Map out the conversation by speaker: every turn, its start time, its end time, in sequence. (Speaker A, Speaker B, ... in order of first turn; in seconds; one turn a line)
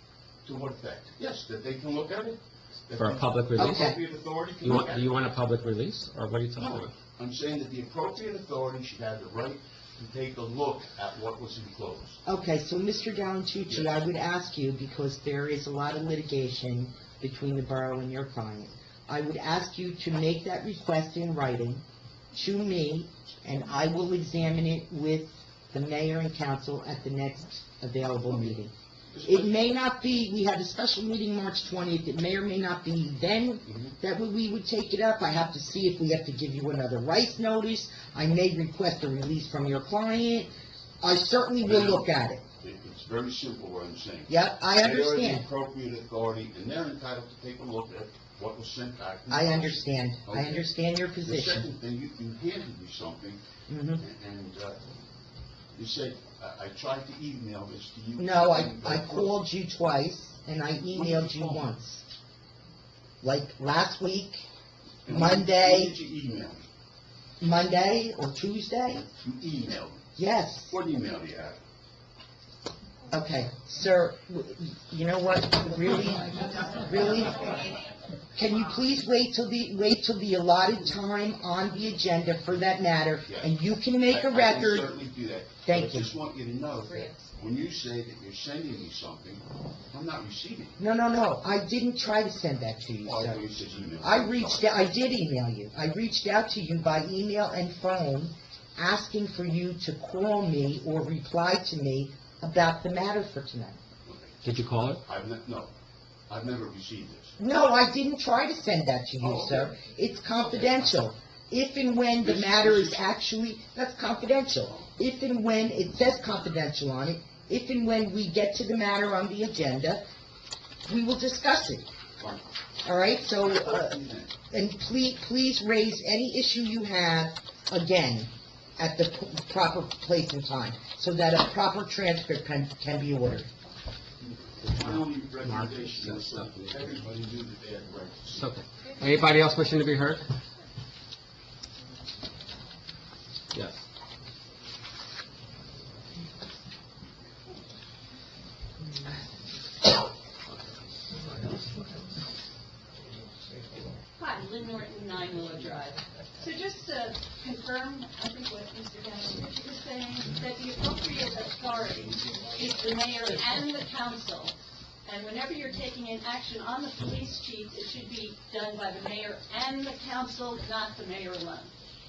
Speaker A: 0.5-5.2
Speaker B: 3.0-3.9
Speaker C: 3.6-4.0
Speaker B: 4.6-6.9
Speaker A: 6.6-12.2
Speaker C: 12.3-28.7
Speaker A: 13.7-14.0
Speaker A: 28.3-28.6
Speaker A: 29.1-29.6
Speaker C: 29.2-42.4
Speaker A: 33.7-34.0
Speaker A: 41.6-42.1
Speaker A: 42.6-50.7
Speaker C: 44.3-45.5
Speaker C: 49.3-51.7
Speaker A: 51.2-53.4
Speaker C: 53.7-54.0
Speaker A: 54.0-54.8
Speaker A: 55.7-59.3
Speaker C: 58.2-62.0
Speaker A: 60.9-61.7
Speaker C: 63.2-64.5
Speaker A: 65.1-66.7
Speaker C: 65.1-66.0
Speaker C: 67.4-69.1
Speaker A: 69.2-70.0
Speaker C: 70.2-70.8
Speaker A: 70.7-71.6
Speaker C: 73.1-77.7
Speaker C: 78.3-85.0
Speaker A: 83.3-83.5
Speaker A: 84.1-90.8
Speaker C: 85.6-86.1
Speaker D: 86.8-87.3
Speaker C: 90.8-93.4
Speaker A: 93.0-94.7
Speaker C: 94.0-103.8
Speaker A: 104.1-104.4
Speaker B: 104.4-105.0
Speaker A: 105.0-105.7
Speaker A: 106.3-107.3
Speaker C: 107.4-120.1
Speaker A: 109.2-109.7
Speaker A: 112.2-113.0
Speaker C: 120.9-121.9
Speaker A: 122.2-122.4
Speaker C: 122.8-133.5
Speaker A: 123.4-124.4
Speaker A: 134.2-138.5
Speaker B: 134.8-136.8
Speaker B: 138.3-140.3
Speaker B: 143.5-143.8
Speaker D: 154.2-171.7